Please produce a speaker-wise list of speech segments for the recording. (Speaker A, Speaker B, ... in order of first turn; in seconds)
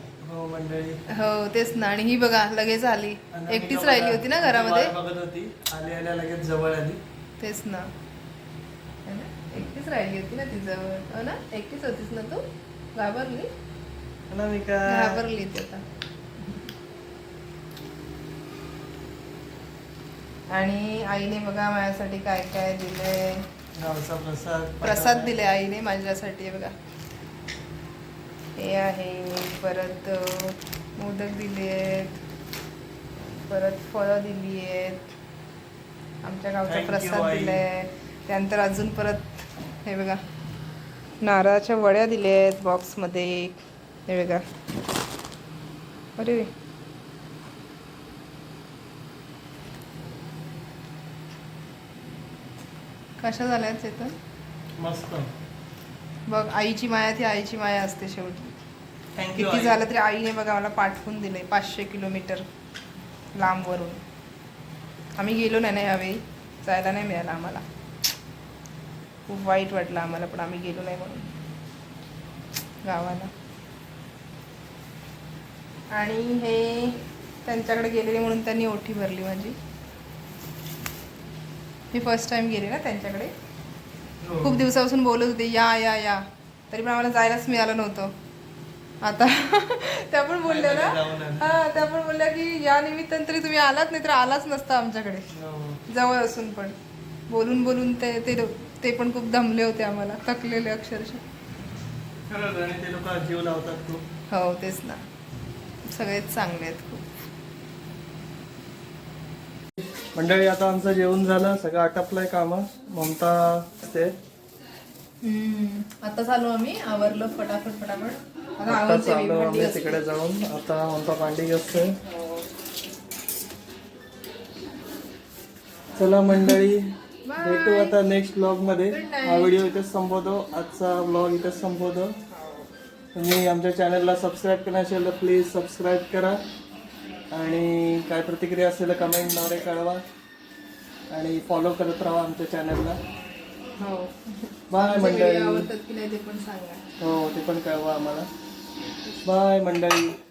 Speaker A: 0.2-1.0, 3.3-7.0, 14.3-15.2, 23.8-25.3, 36.7-37.6, 54.8-55.3, 59.2-59.8, 84.2-84.6, 90.5-91.5, 95.3-95.8, 102.3-104.0, 110.2-114.1, 118.7-122.0, 126.0-132.2, 133.2-136.4, 137.3-140.0, 141.1-143.0, 144.7-145.7, 147.0-148.3, 149.2-150.2
Speaker B: 1.1-4.9, 7.4-7.9, 9.1-13.5, 14.9-15.8, 16.4-16.7, 20.5-23.5, 24.8-26.8, 28.6-32.2, 33.4-35.1, 36.2-40.2, 41.2-44.4, 46.2-46.5, 53.2-54.2, 56.3-58.5, 59.4-62.5, 63.4-64.0, 65.2-67.6, 69.3-71.3, 72.8-73.3, 75.9-79.6, 81.9-83.3, 84.4-88.2, 89.0-95.3, 95.9-96.8, 97.3-101.2, 104.3-105.0, 105.9-107.0, 115.2-120.0, 122.1-122.4, 127.2-128.0, 128.9-129.6, 132.3-132.7, 143.7-146.8